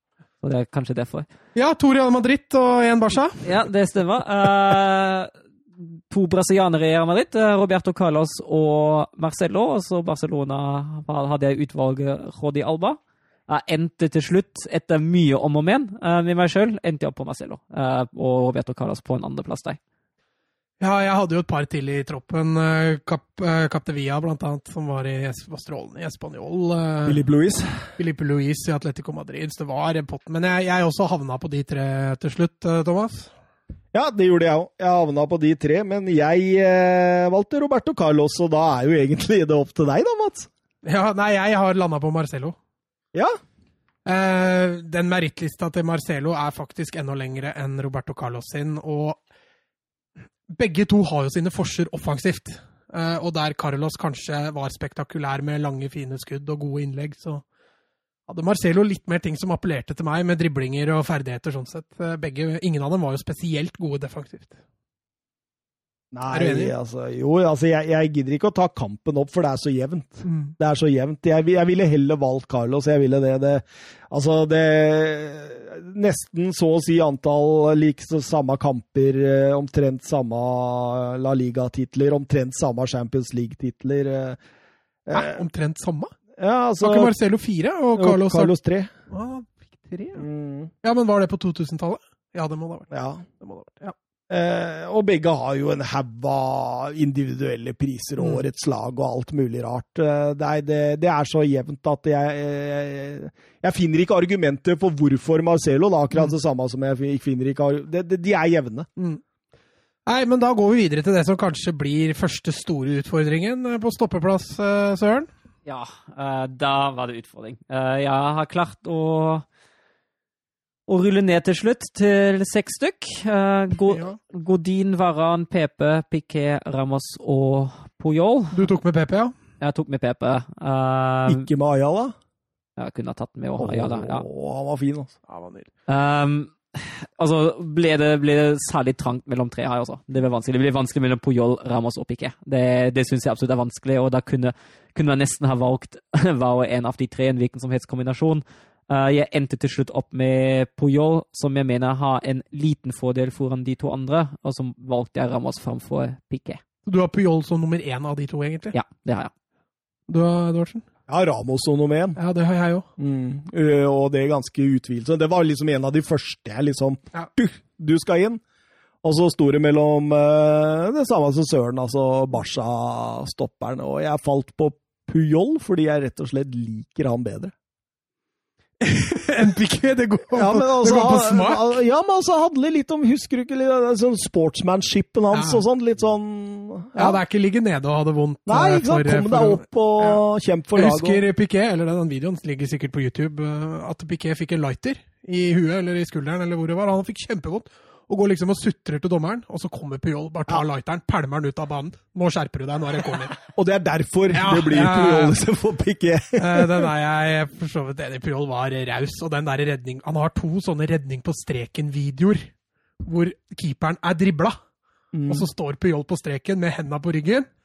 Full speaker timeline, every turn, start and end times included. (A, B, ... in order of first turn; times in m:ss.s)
0:00.4-0:01.3 A
0:01.6-0:03.4 B
0:03.4-0:19.8 A
0:20.8-0:27.2 B
0:27.1-0:27.9 C
0:28.0-0:33.3 B
0:33.9-0:40.5 C
0:40.8-0:42.6 B
0:44.1-0:49.2 B
0:50.5-0:57.4 B
0:58.3-1:04.6 B
1:06.1-1:24.4 C
1:06.3-1:06.7 B
1:10.2-1:10.5 B
1:25.1-1:25.4 C
1:25.1-1:26.1 B
1:26.4-1:27.1 C
1:26.8-1:28.5 B
1:28.0-1:28.9 C
1:29.1-1:30.3 B
1:30.2-1:30.7 C
1:30.8-1:34.0 B
1:32.9-1:33.2 C
1:34.3-1:48.9 C
1:38.2-1:38.4 B
1:49.0-1:49.2 B
1:50.1-1:55.3 B
1:55.7-1:59.5 A
2:00.9-2:08.7 A
2:03.9-2:04.2 B
2:08.5-2:09.4 B
2:09.6-2:11.5 A
2:11.3-2:12.1 C
2:12.8-2:14.2 A
2:13.6-2:15.1 C
2:15.3-2:15.7 B
2:15.9-2:36.6 A
2:36.8-2:38.8 B
2:38.7-2:39.3 A
2:40.1-2:40.9 B
2:41.1-2:42.2 C
2:42.2-2:42.9 B
2:43.0-2:48.4 C
2:49.0-2:57.5 C
2:58.8-3:01.8 B
3:00.3-3:07.2 C
3:05.3-3:05.6 B
3:07.0-3:10.2 B
3:08.5-3:11.2 C
3:10.8-3:23.4 B
3:23.4-3:26.9 C
3:24.3-3:25.4 B
3:26.4-3:32.5 B
3:33.0-3:34.6 B
3:35.1-3:35.5 C
3:35.3-3:37.5 B